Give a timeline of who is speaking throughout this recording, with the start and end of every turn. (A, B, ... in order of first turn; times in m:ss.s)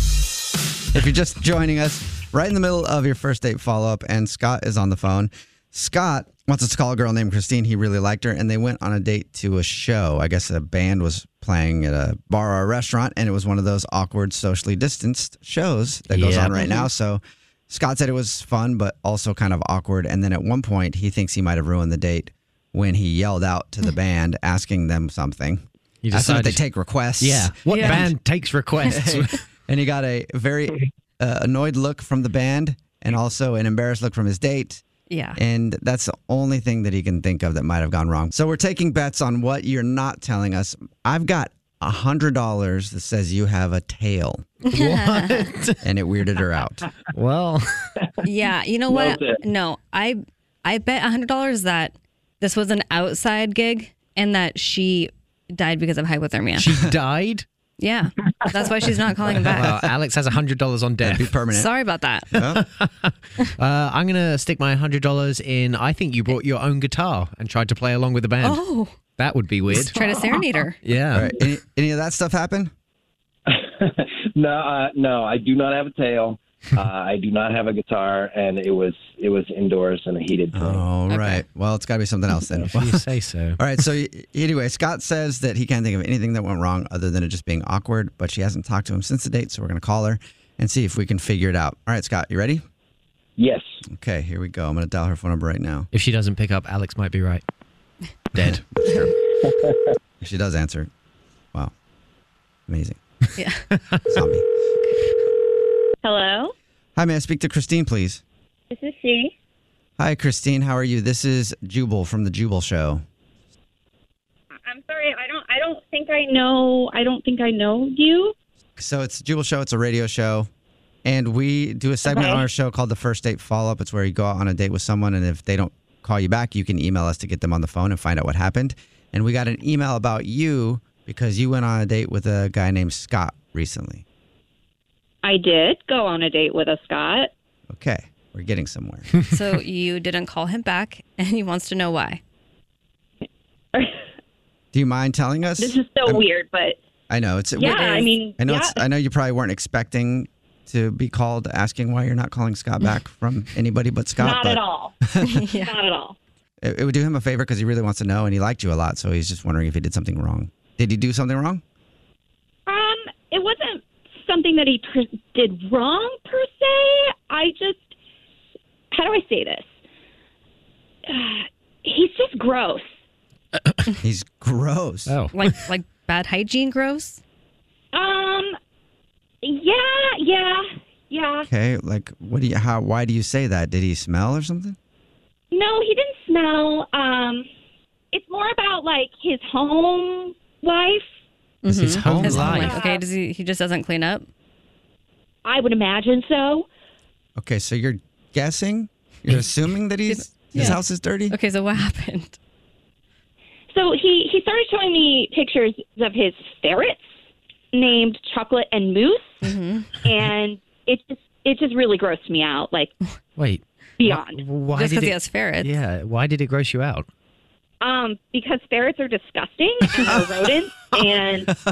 0:00.9-0:28.1 A
0:16.1-0:16.6 B
0:16.6-0:16.9 C
0:26.0-0:26.6 B
0:27.2-0:29.4 B
0:27.7-0:28.1 C
0:28.9-0:34.8 A
0:35.1-0:35.4 C
0:35.4-0:44.5 A
0:44.7-0:45.5 C
0:44.7-0:45.8 B
0:45.8-0:46.8 A
0:47.1-0:47.9 B
0:48.2-0:56.8 C
0:48.9-0:49.4 D
0:56.6-0:57.4 B
0:57.8-0:59.7 C
0:59.5-1:01.3 B
1:01.0-1:01.7 A
1:01.5-1:02.3 C
1:02.3-1:02.6 A
1:02.5-1:08.6 B
1:08.4-1:09.0 C
1:09.2-1:10.2 B
1:09.7-1:10.8 C
1:10.8-1:11.3 B
1:11.1-1:12.7 A
1:13.5-1:20.9 D
1:20.5-1:23.1 A
1:21.1-1:21.4 C
1:22.7-1:23.6 B
1:23.6-1:32.6 A
1:33.4-1:33.8 D
1:33.9-1:35.9 A
1:35.9-1:37.4 B
1:38.3-1:39.1 B
1:38.4-1:39.1 A
1:40.2-1:40.9 A
1:42.7-1:43.0 A
1:43.4-1:43.7 C
1:44.1-1:44.4 A
1:46.0-1:46.5 E
1:47.0-1:48.2 A
1:48.7-1:49.3 E
1:50.0-1:53.0 A
1:54.6-1:58.4 E
1:58.8-2:00.5 A
2:01.0-2:14.0 A
2:02.1-2:02.4 E
2:15.2-2:17.3 E
2:17.7-2:19.1 A
2:19.3-2:22.2 C
2:23.7-2:24.0 E
2:24.7-2:26.2 A
2:25.6-2:26.8 E
2:27.1-2:35.4 A
2:27.6-2:28.8 E
2:27.7-2:28.1 C
2:34.2-2:35.0 E
2:35.2-2:35.8 C
2:35.5-2:36.2 E
2:36.6-2:41.6 A
2:42.7-2:47.9 E
2:48.9-2:49.7 E
2:51.1-2:52.9 E
2:54.0-2:55.2 A
2:55.1-2:55.5 B
2:55.3-2:57.2 C
2:57.9-2:58.6 E
2:59.4-3:01.5 E
3:01.4-3:04.8 A
3:05.5-3:07.5 E
3:08.1-3:11.1 E
3:11.6-3:14.3 C
3:11.7-3:12.8 B
3:12.0-3:12.7 A
3:12.5-3:13.0 E
3:15.4-3:16.7 E
3:17.4-3:21.4 A
3:20.1-3:22.4 C
3:23.7-3:27.1 E
3:27.7-3:29.4 E
3:29.4-3:29.9 C
3:30.0-3:33.0 E
3:33.4-3:37.1 B
3:34.0-3:34.4 E
3:34.7-3:35.8 C
3:37.8-3:41.5 E